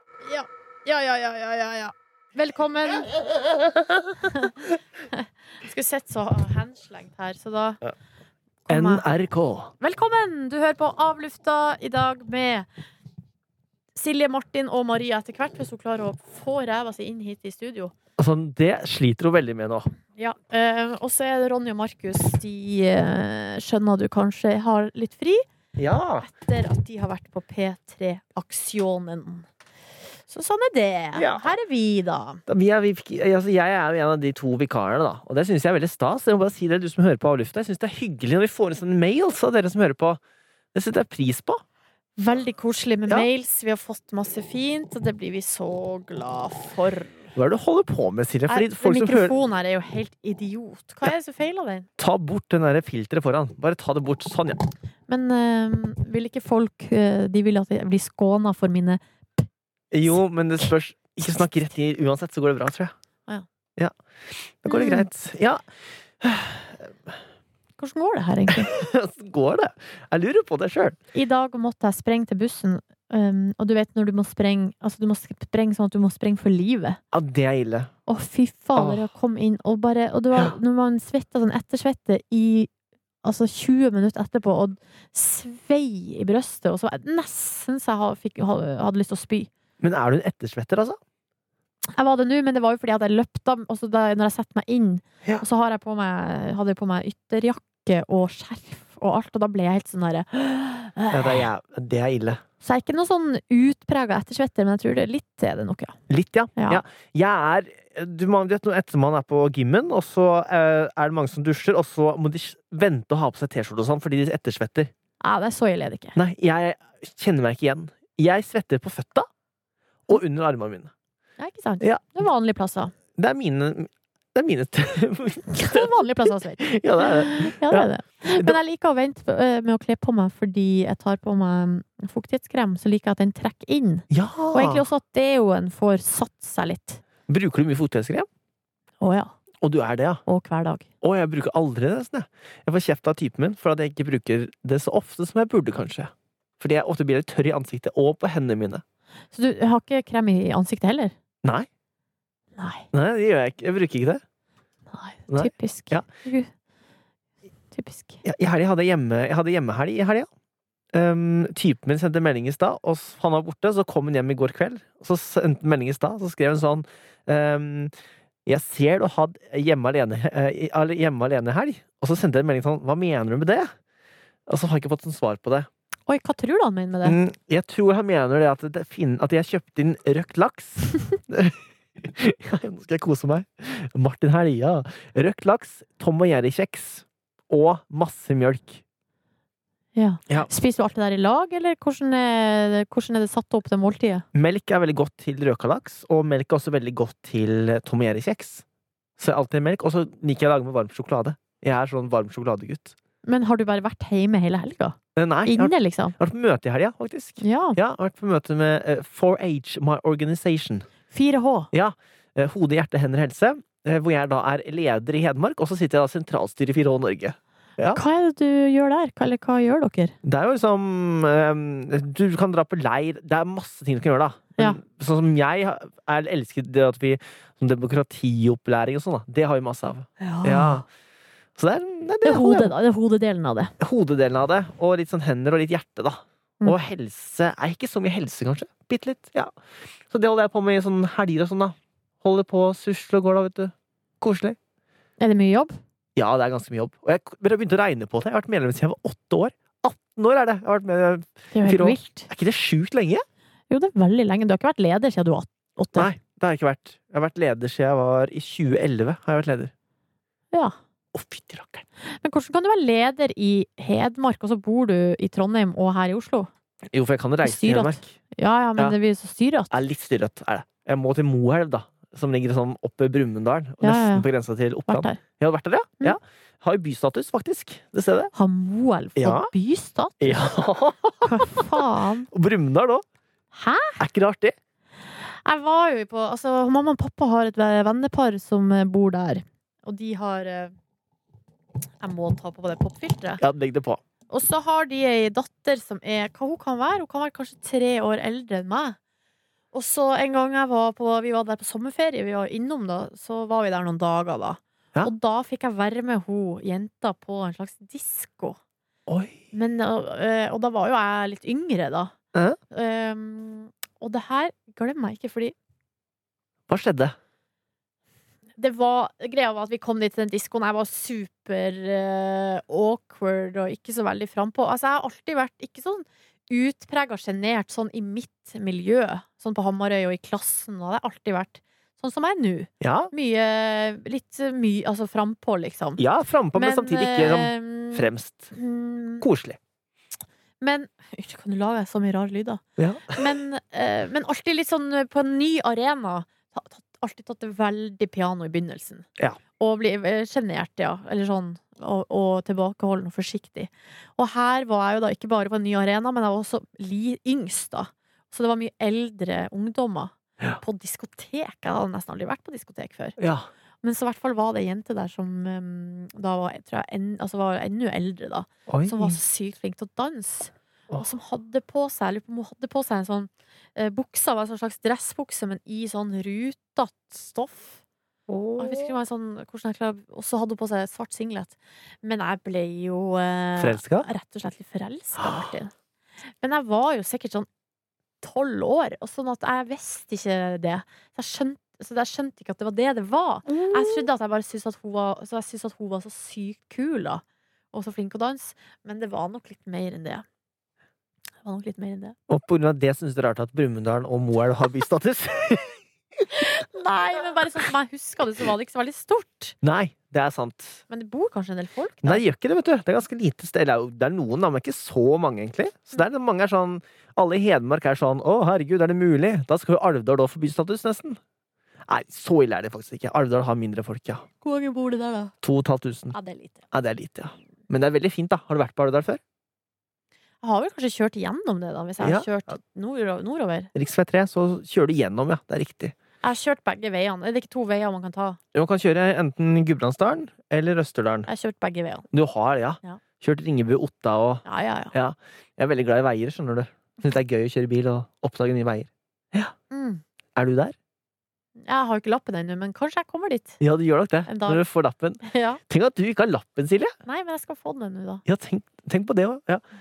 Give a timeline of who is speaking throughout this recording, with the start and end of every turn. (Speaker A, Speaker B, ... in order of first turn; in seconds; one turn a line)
Speaker A: 0.2-3.1
Speaker A: 4.3-4.6
Speaker A: 5.1-7.8
Speaker A: 8.7-9.0
Speaker B: 8.7-9.7
Speaker A: 9.8-12.7
Speaker A: 13.9-17.9
Speaker B: 18.2-19.9
Speaker A: 20.2-25.4
Speaker B: 25.8-26.3
Speaker A: 26.2-29.5
Speaker A: 30.3-32.4
Speaker B: 31.1-31.5
Speaker B: 32.5-40.2
Speaker B: 40.7-41.6
Speaker A: 42.2-47.2
Speaker B: 47.4-49.3
Speaker A: 48.5-51.9
Speaker B: 52.0-54.6
Speaker A: 55.1-59.5
Speaker B: 59.9-62.9
Speaker B: 63.8-65.6
Speaker A: 64.7-65.1
Speaker B: 66.2-67.2
Speaker A: 67.8-68.7
Speaker B: 68.5-71.0
Speaker A: 71.1-77.0
Speaker B: 77.1-77.9
Speaker A: 78.1-82.7
Speaker B: 78.8-79.1
Speaker A: 83.2-89.5
Speaker B: 89.8-91.0
Speaker A: 91.9-101.5
Speaker B: 101.1-102.4
Speaker A: 102.6-106.0
Speaker B: 106.1-114.9
Speaker A: 106.6-106.8
Speaker A: 115.2-116.2
Speaker B: 116.2-119.3
Speaker B: 120.1-120.9
Speaker A: 121.4-122.9
Speaker B: 121.8-122.1
Speaker B: 123.2-125.9
Speaker A: 125.5-137.0
Speaker B: 126.6-128.6
Speaker B: 134.1-134.8
Speaker B: 137.3-138.3
Speaker A: 139.0-139.3
Speaker B: 139.6-140.2
Speaker A: 140.3-140.9
Speaker B: 141.0-148.8
Speaker A: 149.3-151.1
Speaker A: 152.6-152.9
Speaker B: 152.9-154.2
Speaker A: 154.9-156.5
Speaker B: 155.3-156.1
Speaker A: 157.7-158.2
Speaker B: 158.2-160.3
Speaker B: 160.9-167.9
Speaker B: 168.5-173.7
Speaker B: 174.5-175.7
Speaker A: 176.1-177.2
Speaker B: 177.0-188.8
Speaker A: 190.0-194.2
Speaker B: 194.3-198.6
Speaker B: 199.2-202.9
Speaker A: 203.2-206.2
Speaker B: 205.2-210.9
Speaker A: 207.4-207.8
Speaker A: 211.1-211.7
Speaker B: 211.7-218.0
Speaker A: 217.9-220.2
Speaker B: 220.2-230.8
Speaker A: 230.2-230.8
Speaker B: 231.6-232.7
Speaker A: 232.2-233.7
Speaker B: 233.8-239.6
Speaker B: 240.1-244.6
Speaker A: 245.2-245.8
Speaker B: 246.2-253.2
Speaker A: 251.5-252.3
Speaker A: 253.7-256.1
Speaker B: 255.9-259.7
Speaker B: 261.1-261.8
Speaker A: 262.1-266.5
Speaker B: 266.9-268.1
Speaker A: 267.4-269.7
Speaker B: 269.7-278.3
Speaker A: 273.8-274.3
Speaker A: 274.9-275.2
Speaker A: 278.3-280.5
Speaker B: 279.2-279.5
Speaker B: 280.2-281.7
Speaker A: 281.3-282.3
Speaker B: 282.3-283.1
Speaker A: 283.5-284.0
Speaker B: 284.0-284.6
Speaker A: 285.2-290.7
Speaker A: 292.0-293.4
Speaker B: 293.4-294.0
Speaker A: 294.3-299.0
Speaker A: 299.7-308.6
Speaker B: 309.1-309.4
Speaker A: 309.5-312.1
Speaker B: 312.3-312.6
Speaker A: 312.7-315.6
Speaker B: 316.7-317.1
Speaker A: 318.6-336.0
Speaker B: 332.8-333.1
Speaker B: 336.0-338.5
Speaker A: 336.6-339.2
Speaker B: 339.2-339.6
Speaker A: 340.6-349.1
Speaker B: 342.8-343.2
Speaker A: 349.6-363.2
Speaker B: 363.2-363.5
Speaker A: 363.8-377.8
Speaker B: 368.7-369.2
Speaker B: 378.3-378.9
Speaker A: 378.6-385.7
Speaker B: 383.6-384.1
Speaker A: 386.4-387.5
Speaker A: 388.2-400.2
Speaker A: 401.4-402.2
Speaker B: 402.3-405.8
Speaker A: 406.3-409.6
Speaker B: 409.6-410.8
Speaker A: 410.9-412.2
Speaker B: 412.0-421.2
Speaker B: 421.9-424.3
Speaker A: 424.4-425.3
Speaker B: 425.4-426.1
Speaker A: 426.1-426.6
Speaker B: 426.7-429.2
Speaker A: 430.4-433.7
Speaker B: 432.0-432.3
Speaker B: 433.7-435.9
Speaker A: 436.2-438.4
Speaker B: 438.5-441.3
Speaker A: 441.3-442.1
Speaker B: 442.1-449.5
Speaker A: 444.4-444.9
Speaker A: 449.7-450.0
Speaker B: 450.4-450.8
Speaker A: 451.6-453.6
Speaker B: 453.6-456.9
Speaker A: 454.3-454.6
Speaker A: 455.2-455.6
Speaker A: 457.1-458.2
Speaker B: 458.3-459.6